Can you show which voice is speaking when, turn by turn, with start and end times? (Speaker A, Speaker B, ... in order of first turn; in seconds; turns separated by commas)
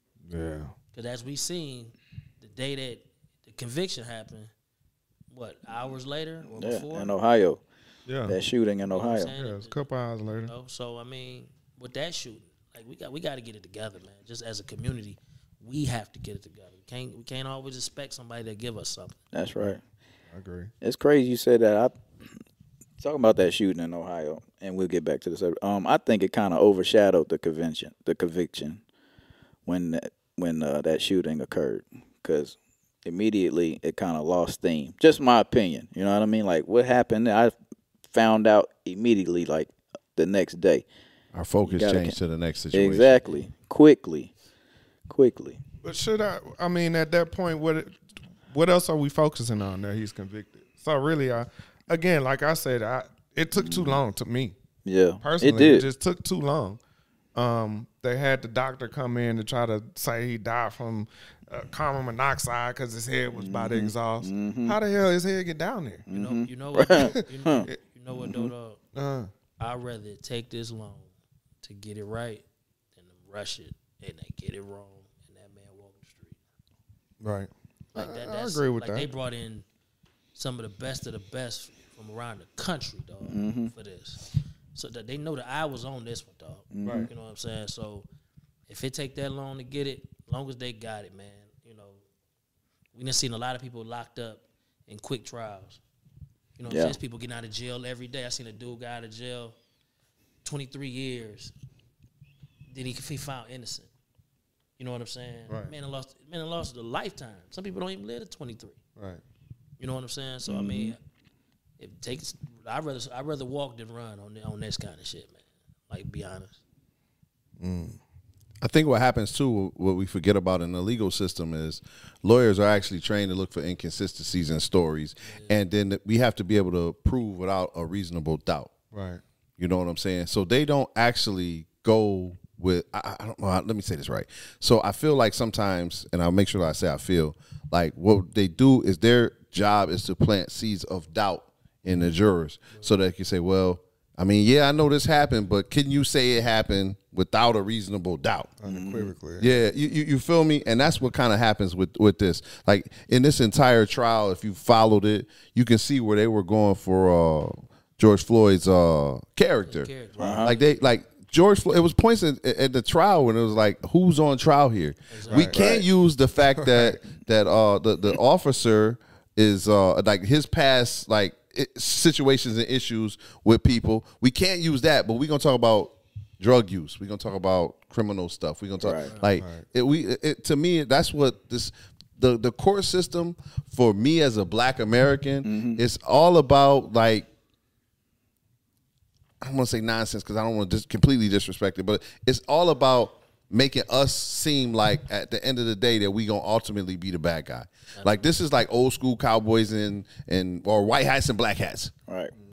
Speaker A: 0.3-0.7, Speaker B: 0.9-4.5, Speaker B: 5.3-7.1, Speaker C: 6.5-7.6, Speaker A: 8.1-8.4, Speaker C: 8.3-9.3, Speaker B: 8.9-9.8, Speaker A: 9.3-10.5, Speaker B: 10.4-19.2, Speaker C: 19.3-19.8, Speaker A: 20.3-20.7, Speaker C: 20.8-22.0, Speaker C: 23.0-28.8, Speaker C: 29.7-37.5, Speaker C: 38.1-40.9, Speaker D: 41.3-43.1, Speaker C: 41.6-42.2, Speaker C: 42.7-44.3, Speaker C: 45.1-45.6, Speaker A: 45.8-54.6, Speaker C: 53.6-54.0, Speaker C: 54.9-55.9, Speaker A: 55.2-56.8, Speaker A: 57.4-66.1, Speaker C: 63.3-64.8, Speaker C: 66.1-68.5, Speaker B: 66.1-68.8, Speaker A: 67.0-67.7, Speaker A: 69.0-69.3, Speaker B: 69.6-71.1, Speaker B: 71.6-72.4, Speaker B: 73.0-76.4, Speaker A: 77.2-79.1, Speaker B: 78.0-79.7, Speaker B: 80.3-88.1, Speaker C: 83.3-83.7, Speaker C: 86.7-87.1, Speaker A: 86.8-87.1, Speaker B: 88.7-92.0, Speaker B: 92.9-95.8, Speaker B: 96.6-99.6, Speaker C: 96.7-97.0, Speaker B: 100.4-101.5, Speaker B: 102.7-103.9, Speaker B: 104.8-108.8, Speaker A: 105.5-105.7, Speaker A: 109.0-109.2, Speaker B: 109.8-111.0, Speaker C: 110.5-111.0, Speaker B: 111.8-116.6, Speaker A: 117.6-118.0, Speaker D: 118.6-128.7, Speaker B: 125.3-125.6, Speaker A: 128.9-129.2, Speaker D: 129.6-148.5, Speaker A: 148.6-149.5, Speaker C: 148.7-149.1, Speaker D: 149.4-159.9, Speaker B: 159.7-160.6, Speaker C: 160.2-160.5, Speaker D: 160.4-187.3, Speaker B: 165.1-165.5, Speaker A: 165.3-165.6, Speaker C: 165.5-165.8, Speaker A: 166.6-167.0, Speaker C: 178.8-179.1, Speaker A: 179.4-179.7, Speaker C: 185.4-185.8, Speaker D: 189.4-201.9, Speaker B: 198.0-198.2